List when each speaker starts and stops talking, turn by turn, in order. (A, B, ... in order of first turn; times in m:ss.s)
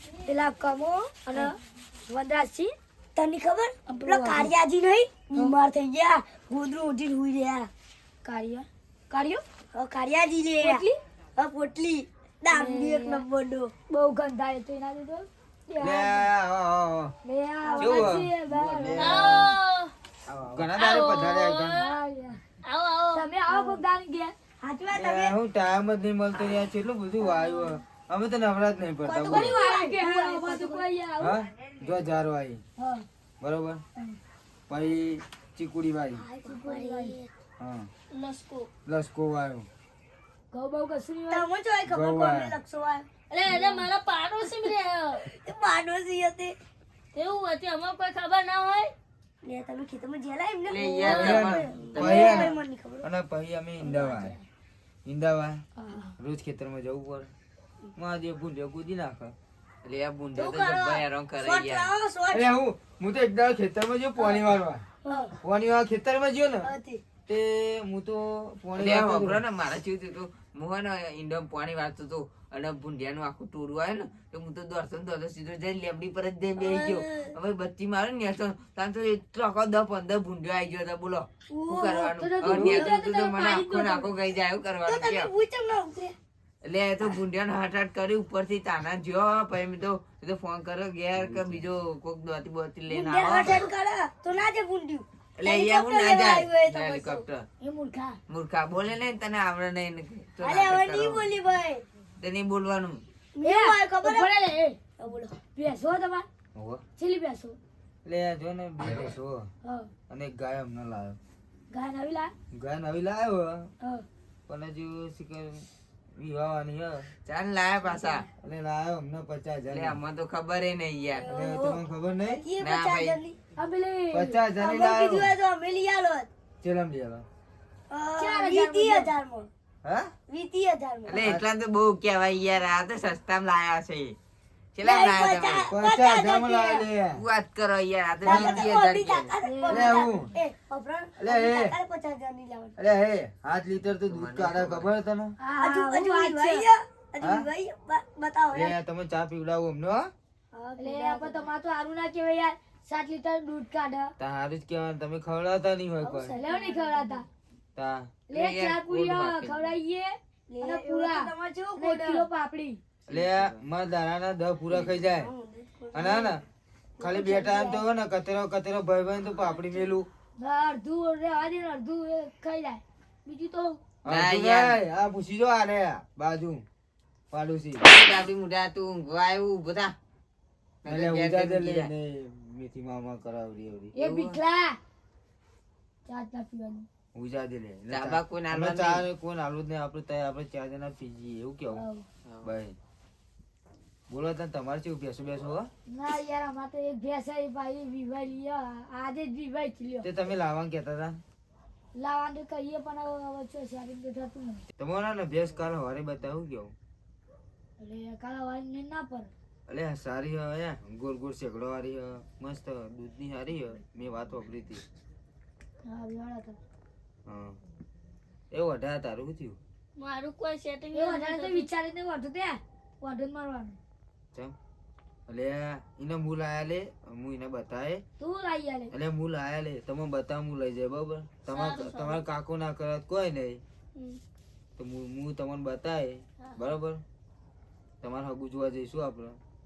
0:00.2-0:01.6 A
0:02.1-0:02.7 A
0:03.2-0:07.7 B
0:03.9-0:04.5 A
0:08.2-0:09.4 A
0:09.7-0:10.8 B
0:10.6-0:11.0 A
0:11.4-0:13.7 B
0:12.5-0:13.2 A
0:13.9-0:16.2 A
0:15.8-0:17.1 C
0:17.2-0:19.2 A
0:17.6-0:18.1 B
0:17.8-0:19.5 C
0:19.0-0:19.9 D
0:20.3-0:20.7 E
0:20.4-0:21.8 C
0:20.8-0:22.0 D
0:21.8-0:22.4 A
0:22.6-0:23.3 D
0:23.1-0:24.3 A
0:23.5-0:23.8 B
0:24.6-0:25.3 B
0:24.9-0:29.6 C
0:27.2-0:27.7 A
0:29.0-0:30.8 B
0:29.3-0:31.4 A
0:31.2-0:32.6 C
0:32.8-0:33.0 A
0:33.4-0:33.8 C
0:34.7-0:36.2 C
0:36.2-0:37.3 B
0:36.4-0:37.2 A
0:37.6-0:37.9 C
0:38.1-0:38.7 D
0:38.8-0:39.6 C
0:40.5-0:41.5 A
0:41.3-0:43.1 B
0:41.9-0:42.5 C
0:43.3-0:45.2 D
0:45.2-0:46.6 B
0:47.1-0:48.9 D
0:49.4-0:53.0 B
0:50.7-0:52.5 E
0:51.0-0:54.4 C
0:55.0-0:55.6 C
0:55.8-0:56.1 A
0:56.2-0:57.3 C
0:58.0-0:59.3 C
0:59.8-1:01.9 E
1:00.4-1:02.5 B
1:02.3-1:04.8 C
1:05.0-1:05.3 B
1:05.4-1:06.7 C
1:06.6-1:07.0 B
1:07.3-1:09.4 C
1:08.8-1:25.3 E
1:16.6-1:17.3 B
1:21.5-1:22.9 B
1:21.9-1:24.1 A
1:22.4-1:22.8 C
1:24.8-1:26.1 B
1:26.6-1:33.7 E
1:31.2-1:31.6 C
1:32.9-1:37.2 B
1:35.4-1:37.4 E
1:37.6-1:38.2 A
1:38.3-1:41.3 E
1:40.4-1:41.8 B
1:42.2-1:43.0 E
1:43.4-1:44.3 B
1:43.4-1:44.8 A
1:45.0-1:45.4 B
1:45.5-1:46.2 A
1:46.5-1:46.8 C
1:47.0-1:47.6 A
1:48.0-1:49.5 C
1:50.1-1:51.2 C
1:51.7-1:52.3 A
1:52.5-1:53.7 C
1:54.5-1:55.6 C
1:56.2-1:57.1 C
1:57.2-1:58.2 E
1:58.4-2:00.0 C
1:59.7-2:01.3 E
2:01.1-2:03.4 B
2:01.3-2:02.4 C
2:02.6-2:03.2 E
2:03.6-2:04.4 A
2:04.1-2:05.3 C
2:04.6-2:06.3 B
2:06.6-2:07.2 C
2:07.9-2:09.5 B
2:08.2-2:09.1 A
2:09.8-2:10.1 C
2:10.3-2:11.2 B
2:11.1-2:14.2 E
2:11.1-2:11.4 C
2:14.7-2:15.7 E
2:14.8-2:16.8 B
2:15.7-2:17.2 C
2:17.2-2:19.3 E
2:18.2-2:22.8 B
2:18.2-2:18.6 C
2:19.4-2:20.1 A
2:19.7-2:20.3 C
2:21.2-2:21.7 C
2:22.8-2:25.3 C
2:24.1-2:24.9 E
2:25.4-2:26.6 A
2:25.6-2:28.7 B
2:27.2-2:27.4 C
2:28.5-2:30.1 C
2:30.5-2:31.5 B
2:30.8-2:34.1 A
2:34.2-2:36.4 C
2:36.0-2:37.1 B
2:36.3-2:37.2 A
2:37.8-2:38.1 C
2:38.3-2:42.8 A
2:38.3-2:39.8 E
2:40.5-2:42.3 B
2:43.1-2:43.6 E
2:43.1-2:45.3 C
2:45.2-2:46.4 B
2:45.9-2:46.4 C
2:47.0-2:50.1 C
2:47.0-2:47.8 B
2:50.4-2:53.8 A
2:54.0-2:56.6 C
2:54.1-2:54.8 E
2:57.3-2:57.8 C
2:57.8-2:59.9 E
3:00.8-3:01.9 E
3:00.8-3:03.9 C
3:04.0-3:04.4 E
3:04.0-3:04.8 A
3:06.1-3:06.8 A
3:07.1-3:11.8 C
3:07.9-3:09.0 E
3:11.7-3:12.0 A
3:12.2-3:12.5 E
3:12.4-3:12.8 C
3:14.1-3:15.7 C
3:15.9-3:20.1 A
3:20.0-3:21.2 C
3:21.9-3:24.6 A
3:24.8-3:26.7 C
3:27.8-3:29.3 A
3:29.7-3:34.8 C
3:35.8-3:36.6 A
3:37.2-3:37.6 C
3:38.5-3:39.6 C
3:40.0-3:41.7 D
3:40.9-3:43.8 A
3:45.3-3:48.0 C
3:48.2-3:48.9 A
3:48.9-3:53.6 C
3:51.5-3:52.2 D
3:54.8-3:57.0 C
3:58.0-3:59.4 C